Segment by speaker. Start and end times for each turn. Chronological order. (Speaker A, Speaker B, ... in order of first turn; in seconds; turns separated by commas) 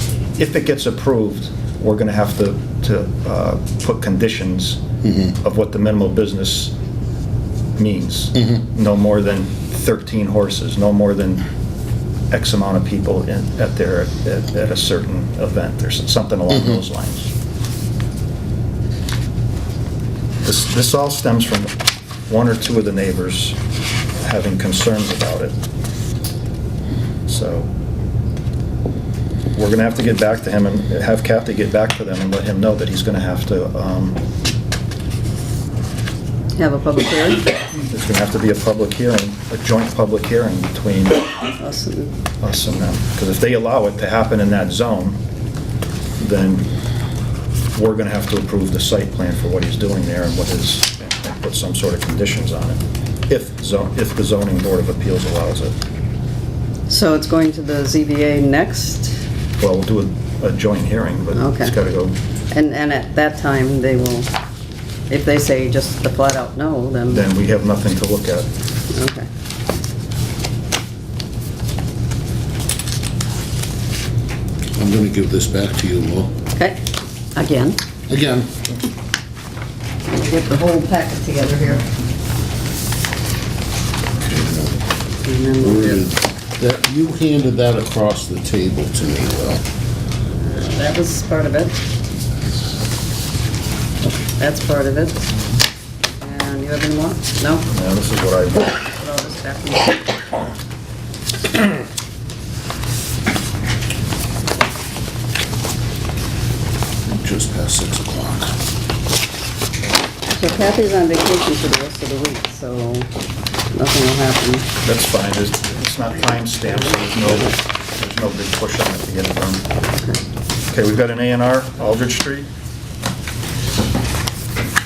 Speaker A: 0.3-4.8, Speaker B: 5.0-5.3, Speaker A: 5.4-6.7, Speaker A: 7.8-11.4, Speaker A: 12.3-17.3, Speaker B: 16.5-16.8, Speaker A: 20.4-21.7, Speaker A: 22.3-23.6, Speaker A: 24.2-25.6, Speaker A: 27.3-27.7, Speaker A: 29.5-34.2, Speaker C: 36.6-37.5, Speaker A: 37.9-41.3, Speaker C: 41.6-42.1, Speaker A: 42.4-45.2, Speaker A: 46.2-46.7, Speaker A: 47.7-55.8, Speaker C: 56.9-59.1, Speaker A: 59.6-62.2, Speaker C: 61.3-61.8, Speaker C: 62.5-64.3, Speaker C: 65.1-67.3, Speaker A: 67.1-68.5, Speaker C: 68.9-69.3, Speaker B: 74.8-76.3, Speaker C: 77.3-77.8, Speaker B: 78.1-78.8, Speaker C: 80.1-81.9, Speaker B: 84.2-84.8, Speaker C: 85.2-86.0, Speaker B: 85.6-89.6, Speaker C: 90.4-91.8, Speaker C: 94.4-95.2, Speaker C: 96.2-97.7, Speaker A: 97.7-98.7, Speaker C: 98.7-100.1, Speaker B: 107.1-108.5, Speaker C: 110.2-113.1, Speaker C: 113.7-114.7, Speaker A: 114.8-119.6, Speaker A: 120.7-122.5